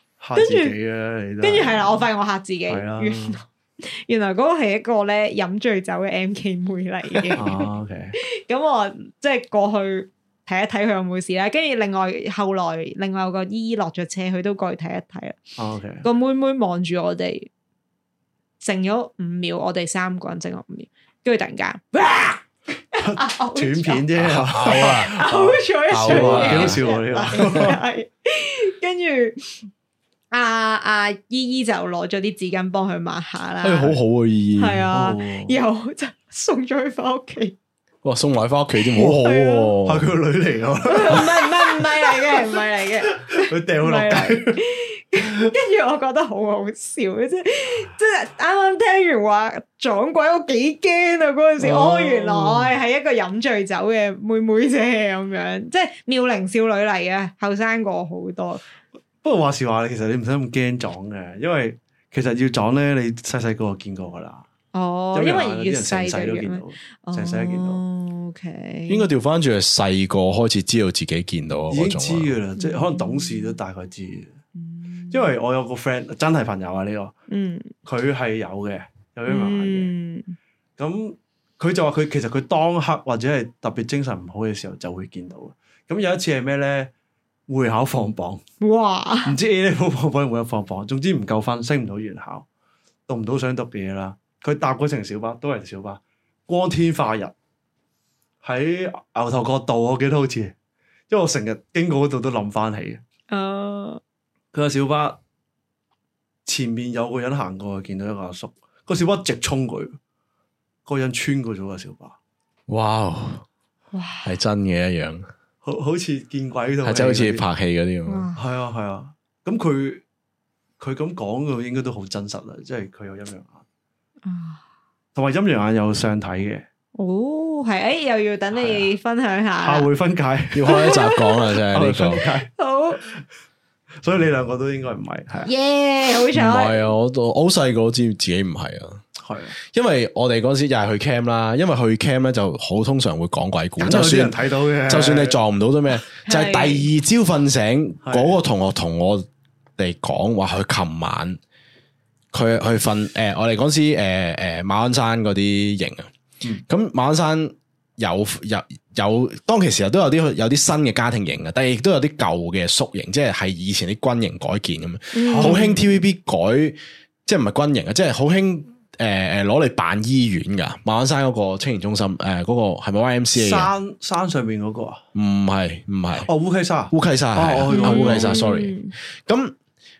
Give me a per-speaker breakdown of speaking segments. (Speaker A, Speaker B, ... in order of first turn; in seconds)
Speaker A: 0.2-2.1, 2.7-3.4, 7.3-8.1, 15.6-16.1, 23.0-27.8, 34.9-35.6, 39.8-44.5, 51.6-52.7, 59.2-64.5, 65.1-67.8, 71.7-74.4, 75.1-77.1, 77.8-79.9, 80.8-86.9, 87.5-88.4, 89.2-92.5, 93.1-97.3, 98.4-100.5, 101.1-103.0, 104.5-105.2, 106.5-110.0, 110.8-112.2, 115.6-117.4, 118.3-120.0, 120.8-123.6, 125.1-126.6, 128.5-128.9, 129.6-131.0, 131.7-132.5, 134.0-135.5, 139.2-139.6, 143.8-145.4, 148.0-148.4, 165.3-165.8, 173.3-175.0, 176.2-178.4
Speaker B: 0.3-0.7, 1.4-17.5, 18.6-24.1, 24.6-29.7, 30.3-34.0, 34.5-37.5, 38.8-39.7, 40.8-58.6, 64.7-69.1, 72.6-73.6, 74.5-75.3, 77.3-77.7, 79.3-80.3, 88.6-89.3, 103.3-104.0, 113.9-114.3, 118.1-118.4, 124.2-124.6, 127.0-129.9, 130.7-131.4, 132.6-133.0, 135.4-136.9, 146.2-146.9, 165.1-165.8, 177.7-178.9
Speaker C: 24.2-25.2, 25.9-26.8, 33.6-34.9, 38.0-40.1, 68.9-72.4, 112.7-113.5, 114.2-115.3, 116.8-118.3, 130.5-132.2, 136.3-139.0, 139.7-149.3, 149.8-151.4, 152.3-156.1, 156.7-173.7, 175.1-176.3, 176.9-179.5